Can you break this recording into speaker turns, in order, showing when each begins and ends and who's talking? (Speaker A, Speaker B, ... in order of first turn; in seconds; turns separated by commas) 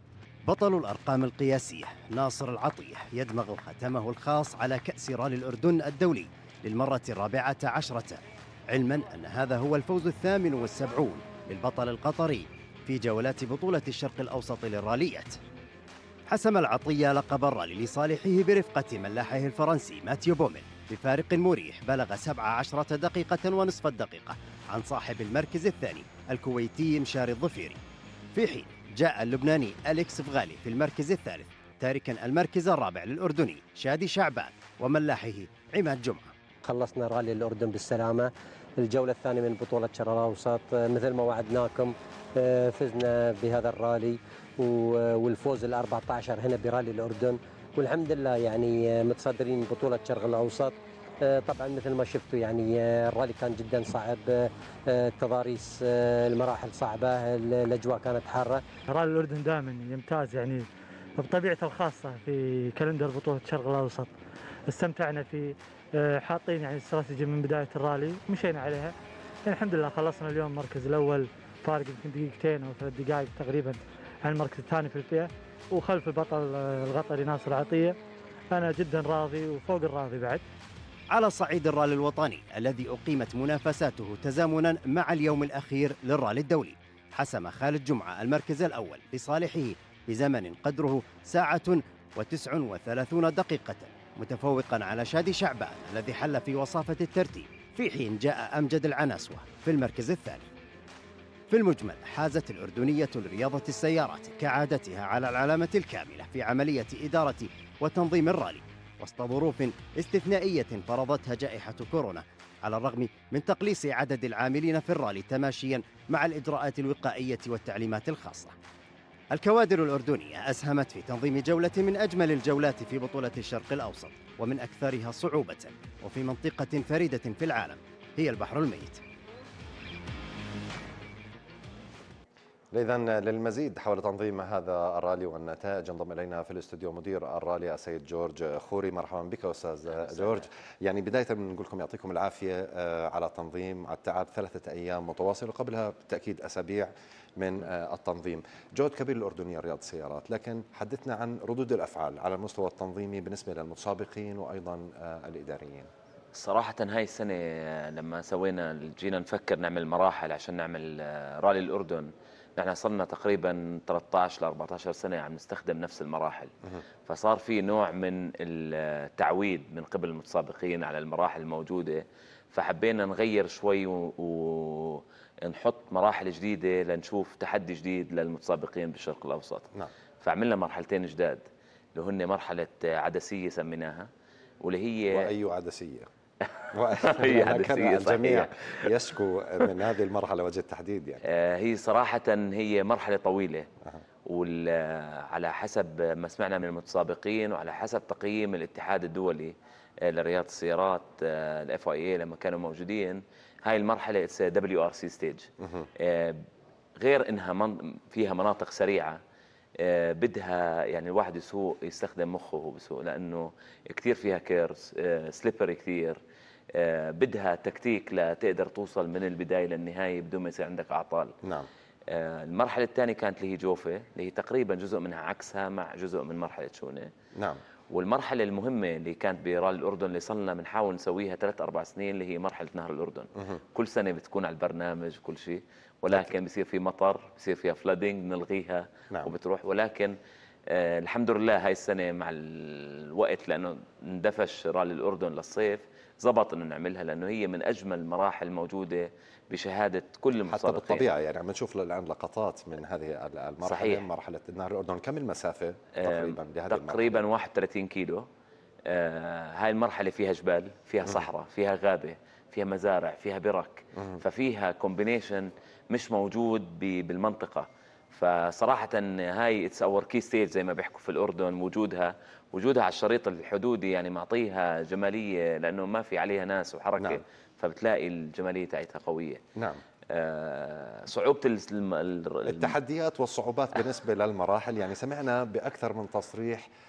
Speaker A: 0.5-8.2, Speaker A: 8.7-15.4, Speaker A: 16.3-27.8, Speaker A: 28.4-36.3, Speaker B: 36.6-58.7, Speaker C: 58.9-64.1, Speaker C: 64.7-68.9, Speaker C: 69.5-78.0, Speaker C: 78.5-80.4, Speaker A: 81.1-100.5, Speaker A: 101.5-118.5, Speaker A: 119.3-129.0, Speaker D: 132.7-155.9, Speaker E: 156.3-166.5, Speaker E: 167.1-179.7, Speaker E: 180.2-181.4, Speaker E: 182.0-184.1, Speaker E: 184.6-185.3, Speaker D: 185.1-186.1, Speaker E: 186.6-188.9, Speaker D: 186.7-191.2, Speaker E: 191.3-193.7, Speaker E: 194.3-206.4, Speaker E: 207.0-209.2, Speaker E: 209.8-216.2, Speaker E: 216.8-221.3, Speaker E: 222.1-227.1, Speaker E: 227.9-240.2, Speaker D: 236.1-236.4, Speaker E: 240.7-251.1, Speaker D: 250.5-257.2, Speaker E: 253.6-254.1, Speaker E: 256.0-258.2, Speaker E: 258.9-279.4, Speaker D: 279.6-279.8, Speaker E: 280.1-282.8, Speaker D: 282.5-286.7